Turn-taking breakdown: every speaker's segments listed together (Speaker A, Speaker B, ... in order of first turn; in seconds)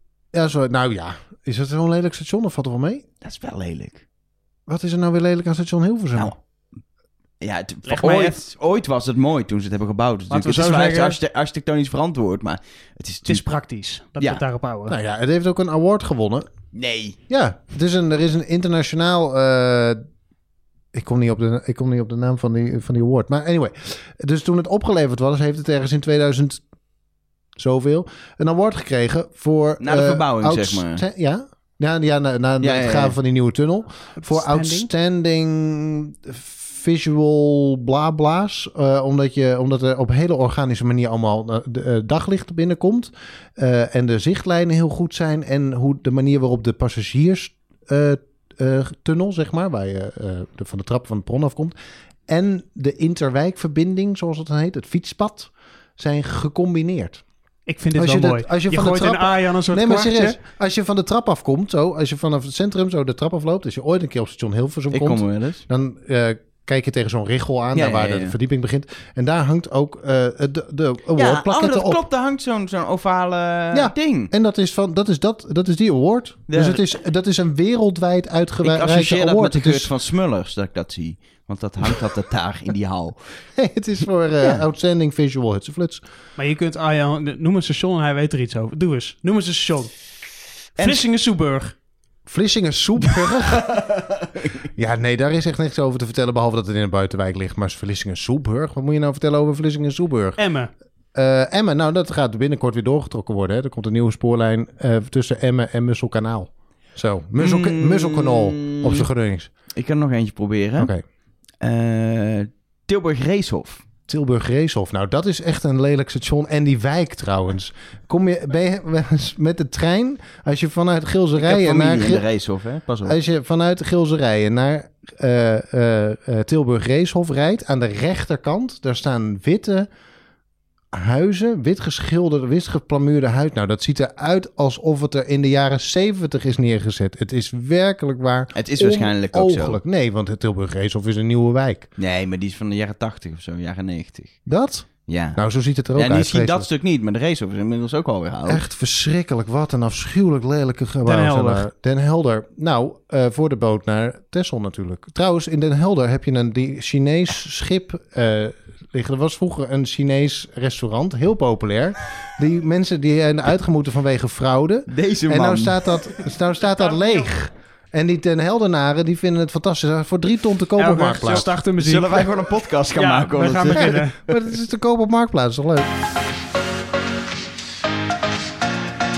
Speaker A: 0.3-3.0, 4.7-6.3, 14.9-16.4, 17.3-20.0, 20.9-26.6, 27.6-51.7, 52.3-57.2, 57.9-72.0, 73.7-79.9, 83.5-86.0, 92.3-93.8, 94.7-100.4, 101.1-109.5, 110.8-111.0, 114.1-122.2, 123.0-129.9, 130.9-141.9, 144.4-146.7, 148.5-171.5, 173.8-175.9
Speaker B: 3.2-4.0, 7.4-13.4, 16.7-17.2, 29.8-31.0, 32.6-33.1, 64.9-65.6, 67.7-68.3, 71.2-74.3, 76.5-76.8, 78.6-83.2, 90.8-91.0, 93.6-94.6, 107.3-109.1, 109.8-110.9, 111.6-113.8, 121.4-123.2, 138.5-139.8, 142.0-144.4, 145.1-145.4, 145.9-148.6, 164.9-165.9, 171.2-174.0
Speaker C: 7.9-8.4, 10.3-11.2, 13.3-15.0, 34.2-34.9, 57.7-60.4, 86.4-89.9, 90.8-91.7, 100.4-100.7, 151.0-151.7, 167.0-167.3, 170.8-172.3, 172.9-174.2